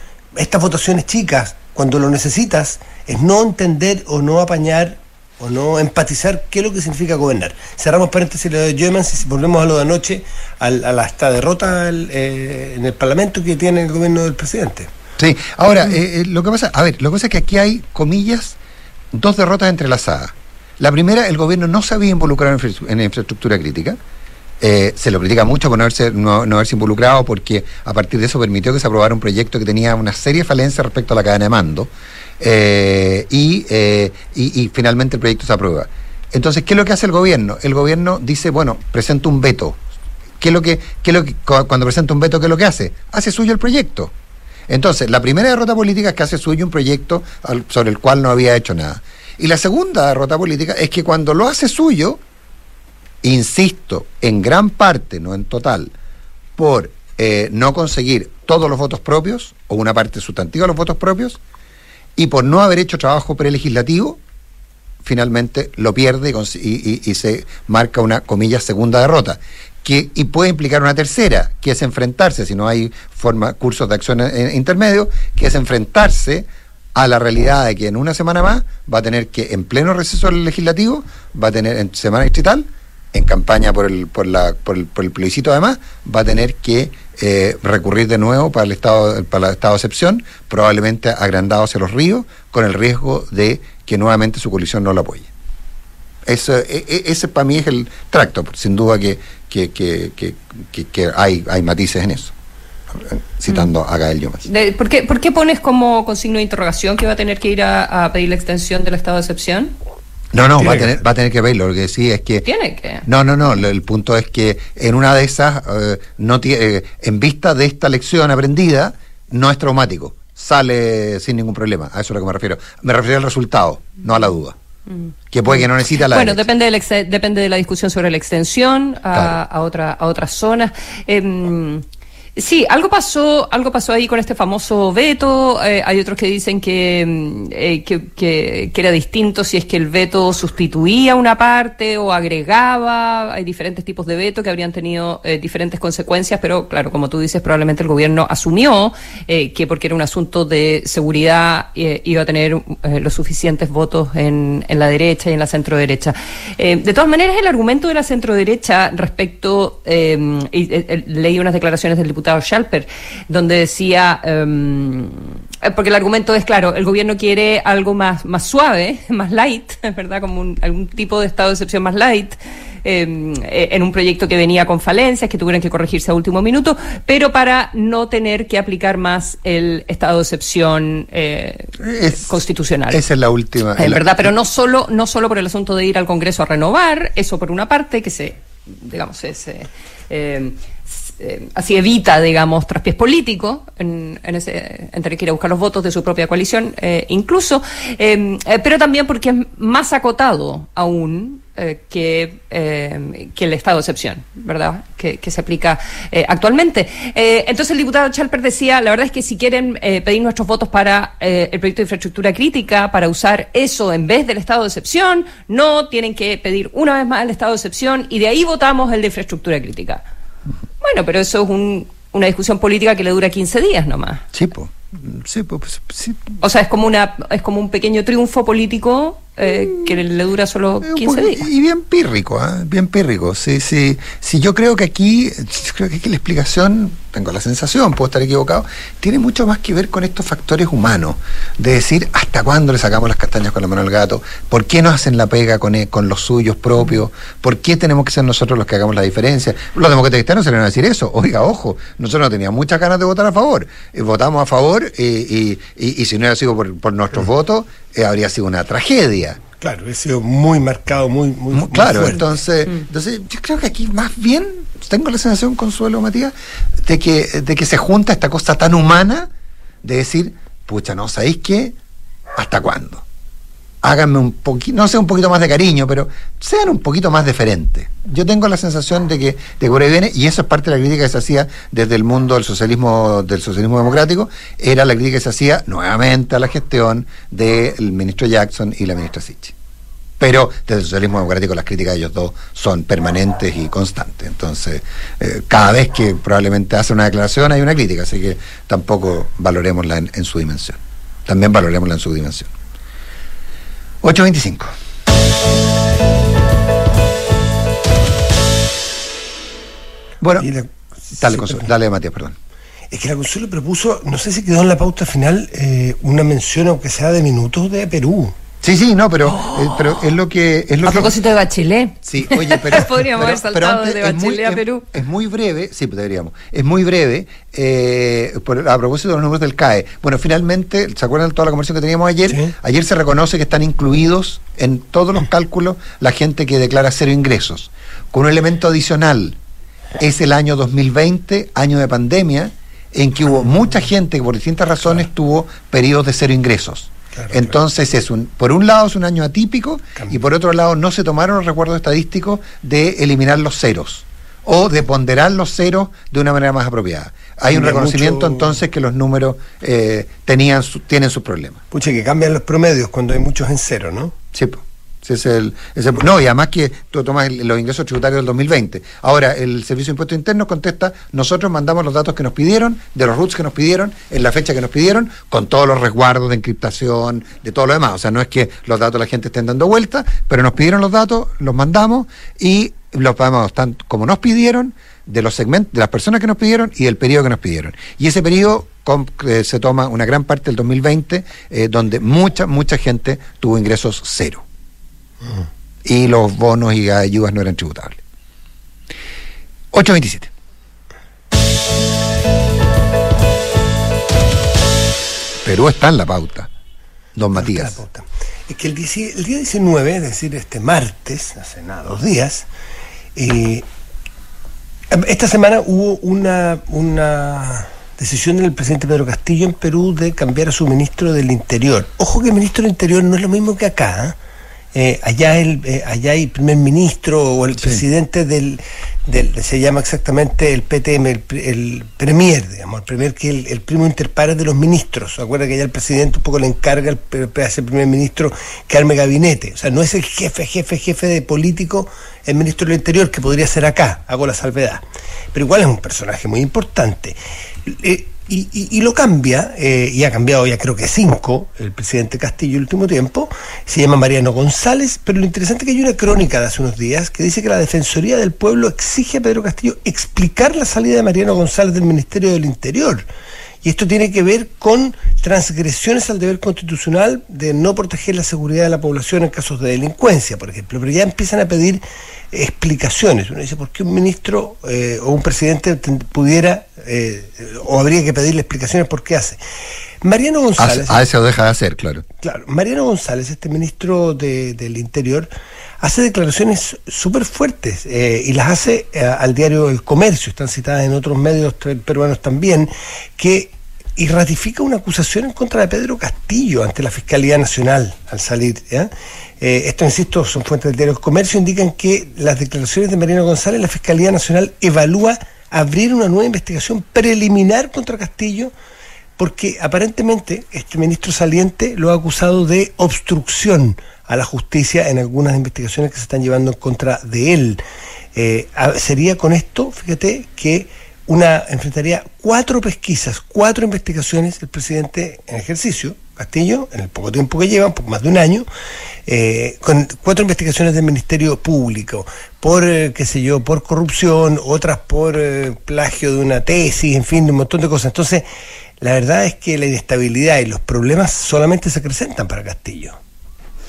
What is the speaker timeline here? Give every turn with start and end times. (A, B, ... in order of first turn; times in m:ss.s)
0:00.3-0:14.9 A
0:15.2-0:18.6 B
0:19.1-0:24.0 B
0:24.6-0:39.8 B
0:40.4-0:44.1 B
0:44.7-0:52.2 B
0:53.2-0:55.9 B
0:56.6-1:01.4 B
1:02.2-1:04.2 B
1:05.0-1:35.3 B
1:36.2-1:42.3 B
1:42.9-1:44.4 B
1:44.4-1:49.7 C
1:50.3-1:52.5 B
1:50.6-1:51.0 A
1:52.4-1:53.0 C
1:53.0-2:04.6 B
2:04.9-2:11.8 C
2:05.3-2:06.4 B
2:12.4-3:03.0 C
3:01.8-3:02.4 B
3:02.9-3:04.3 B
3:03.8-3:40.0 C
3:40.8-3:44.2 C
3:44.3-3:46.2 B
3:46.4-3:51.4 C
3:50.8-4:19.4 B
4:19.6-4:22.2 A
4:21.5-4:29.3 B
4:29.8-4:31.7 B
4:32.3-4:33.0 B
4:33.8-4:49.5 B
4:50.2-5:02.5 B
5:04.0-5:04.7 B
5:10.2-5:10.5 B
5:10.4-5:11.7 A
5:11.2-5:12.4 B
5:12.9-5:18.3 A
5:18.6-5:21.2 B
5:20.8-5:24.9 C
5:22.0-5:39.4 B
5:40.0-6:01.6 B
5:47.1-5:47.5 A
5:57.5-5:58.5 A
6:01.7-6:04.1 A
6:04.3-6:34.4 B
6:35.8-6:38.0 B
6:39.7-6:40.3 B
6:45.4-6:46.5 B
6:47.1-6:47.8 B
6:47.3-6:52.5 A
6:53.2-6:53.6 A
6:54.9-7:04.2 A
7:04.7-7:43.0 A
7:07.6-7:07.8 B
7:43.6-7:59.4 A
8:00.0-8:01.0 A
8:00.6-8:02.0 B
8:02.2-8:05.3 A
8:05.8-8:28.5 A
8:29.2-8:37.6 A
8:38.1-8:48.5 A
8:49.0-8:58.3 A
8:58.8-9:03.0 A